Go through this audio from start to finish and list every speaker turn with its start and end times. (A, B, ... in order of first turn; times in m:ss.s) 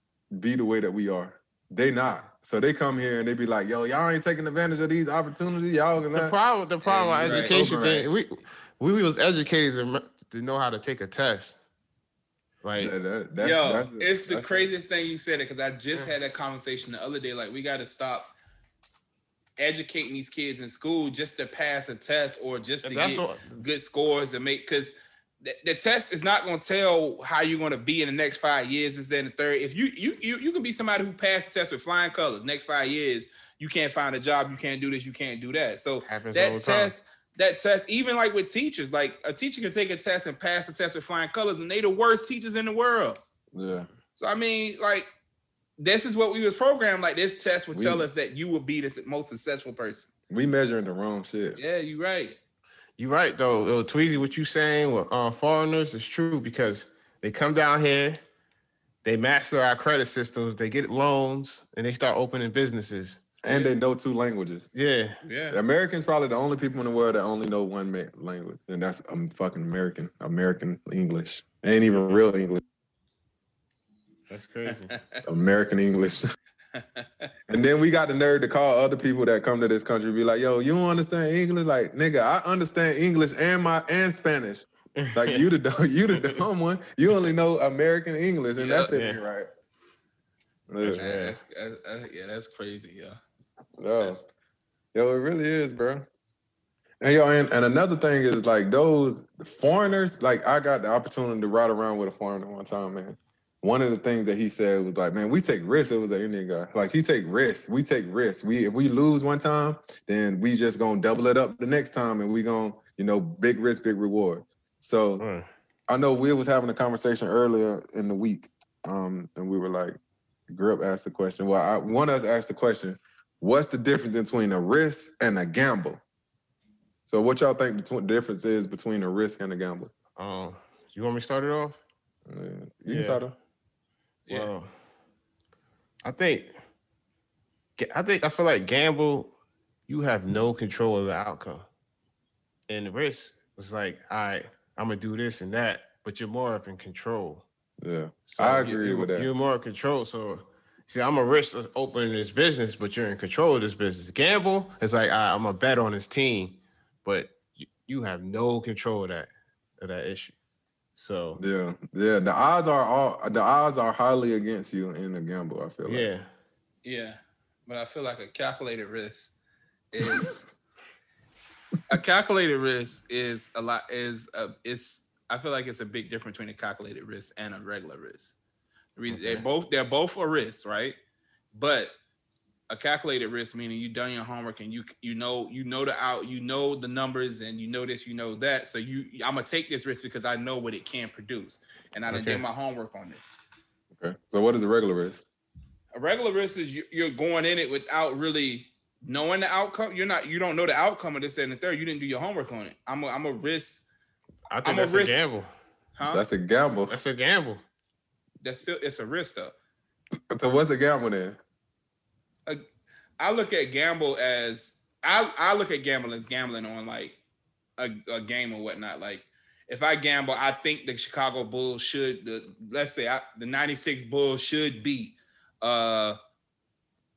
0:00.3-0:06.3 A
0:06.1-0:11.6 B
0:06.8-0:07.7 C
0:07.2-0:08.1 A
0:12.6-0:12.9 B
0:12.8-0:14.7 A
0:13.4-0:18.3 C
0:19.6-0:43.2 C
0:22.8-0:23.6 B
0:36.0-0:36.9 B
0:43.5-0:43.9 A
0:44.2-0:45.1 C
0:45.8-0:50.1 C
0:47.7-0:48.0 A
0:50.3-0:51.6 A
0:51.6-0:52.4 C
0:53.0-0:58.2 B
0:59.0-1:03.2 B
1:03.4-1:04.7 A
1:04.7-1:05.2 B
1:05.2-1:05.6 C
1:05.5-1:12.6 A
1:14.3-1:14.9 B
1:14.9-1:15.2 C
1:15.2-1:16.2 A
1:16.8-1:17.3 C
1:17.5-1:29.5 A
1:25.0-1:25.5 B
1:28.6-1:28.9 C
1:28.9-1:29.2 B
1:30.7-1:31.0 A
1:30.8-1:31.4 B
1:30.9-1:33.2 C
1:33.8-1:34.2 A
1:34.9-1:36.0 A
1:37.0-1:55.2 A
1:55.2-1:55.5 B
1:55.9-2:00.0 A
2:00.5-2:06.0 A
2:07.1-2:09.9 A
2:10.2-2:11.8 B
2:12.3-2:13.4 A
2:12.8-2:13.2 B
2:14.3-2:14.7 B
2:16.0-2:16.5 B
2:17.8-2:19.3 B
2:19.9-2:21.7 B
2:22.7-2:27.4 B
2:27.8-2:29.3 A
2:28.3-2:40.3 B
2:41.0-2:41.4 B
2:41.4-2:46.1 A
2:45.8-2:46.3 B
2:46.8-2:49.3 C
2:49.9-2:50.4 C
2:51.9-2:58.4 C
2:59.0-3:01.0 C
2:59.1-2:59.4 B
3:01.5-3:01.9 C
3:02.7-3:13.4 C
3:12.1-3:12.4 B
3:14.0-3:15.2 A
3:15.9-3:23.9 C
3:24.5-3:25.5 B
3:24.6-3:25.2 C
3:26.0-3:26.2 C
3:26.1-3:27.0 A
3:26.9-3:27.6 B
3:28.4-3:29.5 C
3:30.3-3:31.4 A
3:33.2-3:37.2 C
3:37.8-3:46.2 C